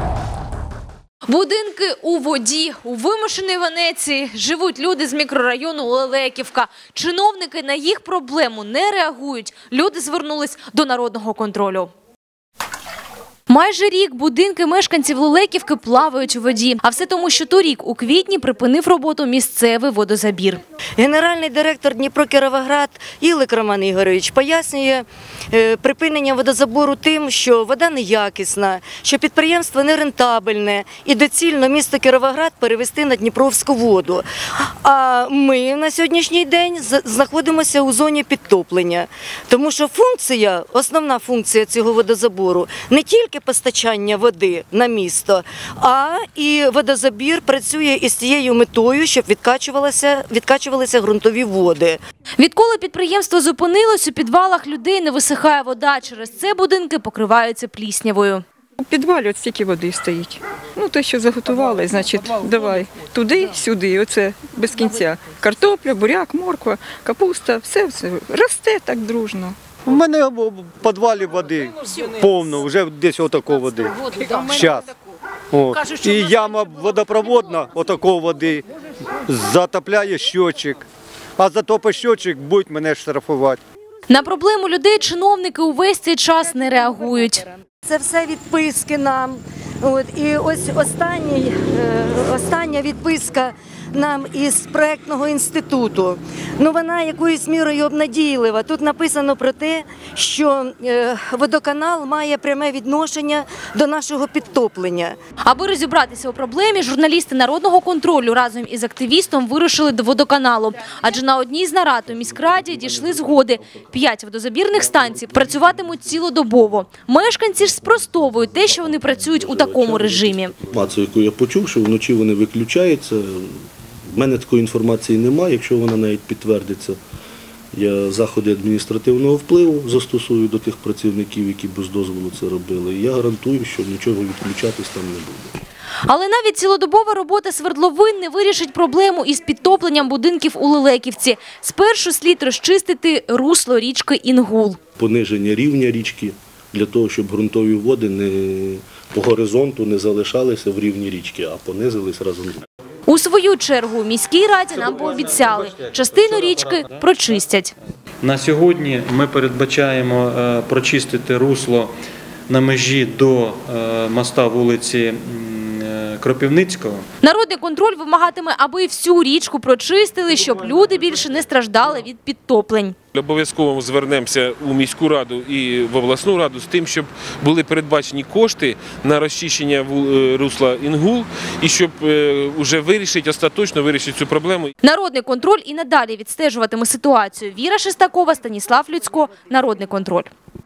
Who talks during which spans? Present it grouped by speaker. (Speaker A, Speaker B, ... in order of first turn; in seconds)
Speaker A: 1.3-11.9, 13.5-20.6, 52.4-58.4, 84.1-87.5, 105.4-120.5, 136.1-144.8, 153.1-157.7, 167.2-172.9, 184.8-190.3
Speaker B: 21.0-52.0, 87.8-105.2
Speaker C: 58.8-69.5
Speaker D: 69.8-74.9, 75.5-78.6, 79.3-80.8, 81.4-83.6
Speaker E: 119.5-123.6, 124.1-127.0, 127.7-135.6, 145.0-152.6
Speaker F: 158.2-161.9, 162.5-167.1
Speaker G: 173.1-184.7